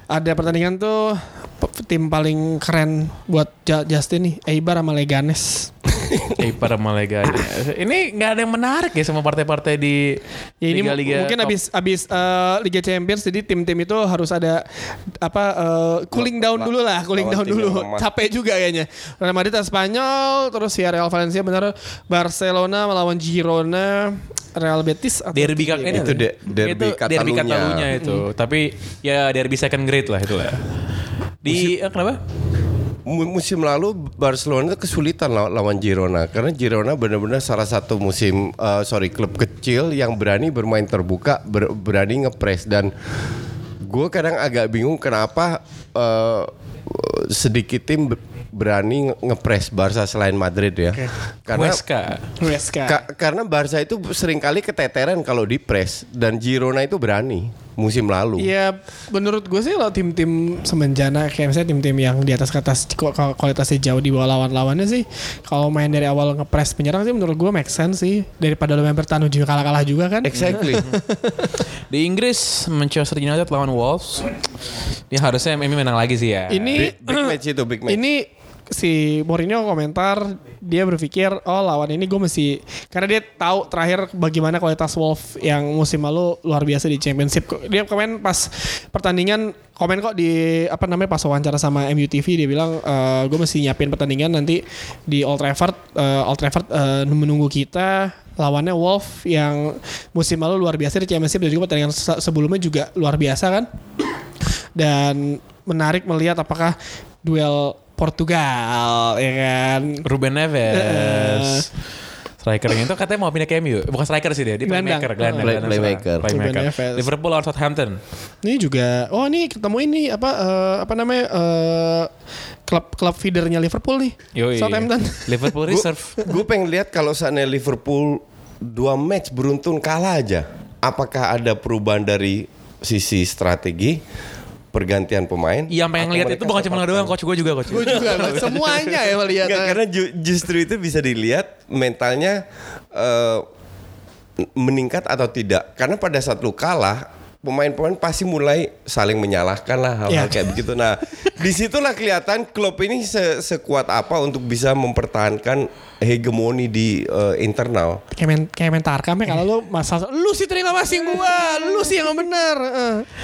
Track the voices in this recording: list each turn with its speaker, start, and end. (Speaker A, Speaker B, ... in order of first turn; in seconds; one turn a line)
Speaker A: 0.1-5.9
Speaker B: 6.3-11.6
Speaker A: 10.6-26.2
Speaker C: 16.1-18.1
Speaker B: 25.3-30.6
Speaker C: 25.9-27.9
Speaker A: 27.9-28.2
Speaker B: 31.4-32.2
Speaker C: 31.5-31.8
Speaker C: 33.1-42.9
Speaker C: 43.8-51.8
Speaker B: 51.5-52.2
Speaker A: 52.4-53.0
Speaker C: 52.9-58.5
Speaker A: 58.4-71.6
Speaker C: 70.2-70.9
Speaker B: 71.9-74.3
Speaker B: 75.1-76.9
Speaker A: 76.5-77.4
Speaker C: 76.8-78.0
Speaker A: 77.9-103.7
Speaker A: 104.8-110.1
Speaker B: 110.0-111.7
Speaker A: 110.7-111.7
Speaker B: 112.4-118.0
Speaker A: 114.6-117.1
Speaker C: 115.4-116.3
Speaker A: 118.4-122.1
Speaker A: 122.7-125.6
Speaker B: 124.3-126.3
Speaker C: 125.7-134.0
Speaker C: 134.7-137.2
Speaker B: 135.7-138.9
Speaker A: 137.7-139.8
Speaker C: 137.7-138.6
Speaker C: 139.4-143.4
Speaker C: 144.6-158.0
Speaker A: 150.1-150.5
Speaker A: 158.2-163.1